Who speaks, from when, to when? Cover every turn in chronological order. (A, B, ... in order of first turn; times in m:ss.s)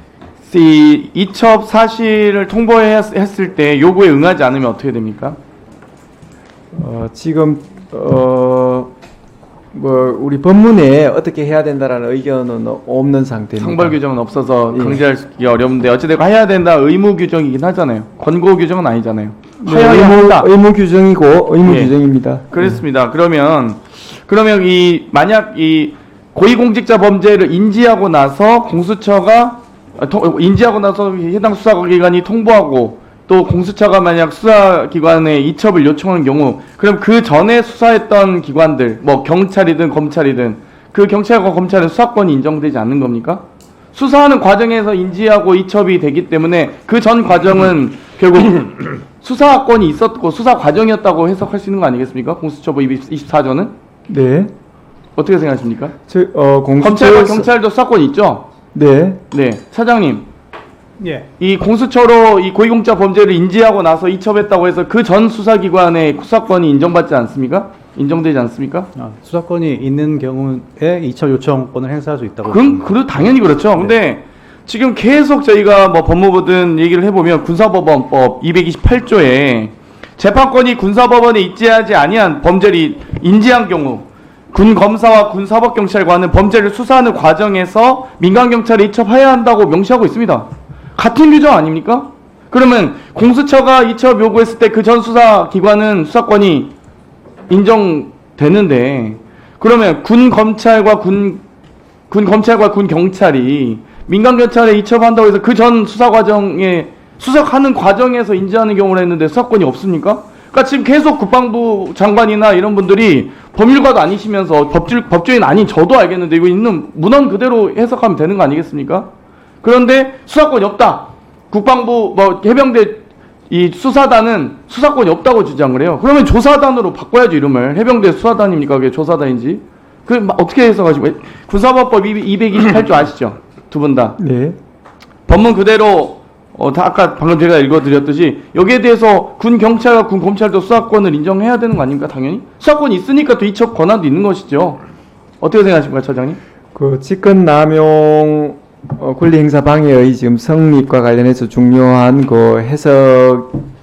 0:00.4-0:05.4 A
0:06.7-0:08.9 B
0:09.7-0:14.0 B
0:13.6-0:20.5 A
0:14.7-0:15.0 B
0:19.6-0:22.8 B
0:21.6-0:21.9 A
0:22.5-0:53.7 A
0:54.1-0:54.5 B
0:55.2-0:55.9 A
0:56.1-0:57.5 B
0:56.8-0:58.5 A
0:58.7-0:59.2 B
0:59.3-1:00.2 A
1:01.0-1:01.2 C
1:01.4-1:08.9 A
1:09.0-1:12.9 C
1:12.4-1:36.7 A
1:37.5-1:41.4 A
1:42.1-1:59.1 A
1:59.6-2:14.2 A
2:14.2-2:14.6 B
2:15.3-2:24.8 A
2:25.4-2:26.4 A
2:26.7-2:33.6 B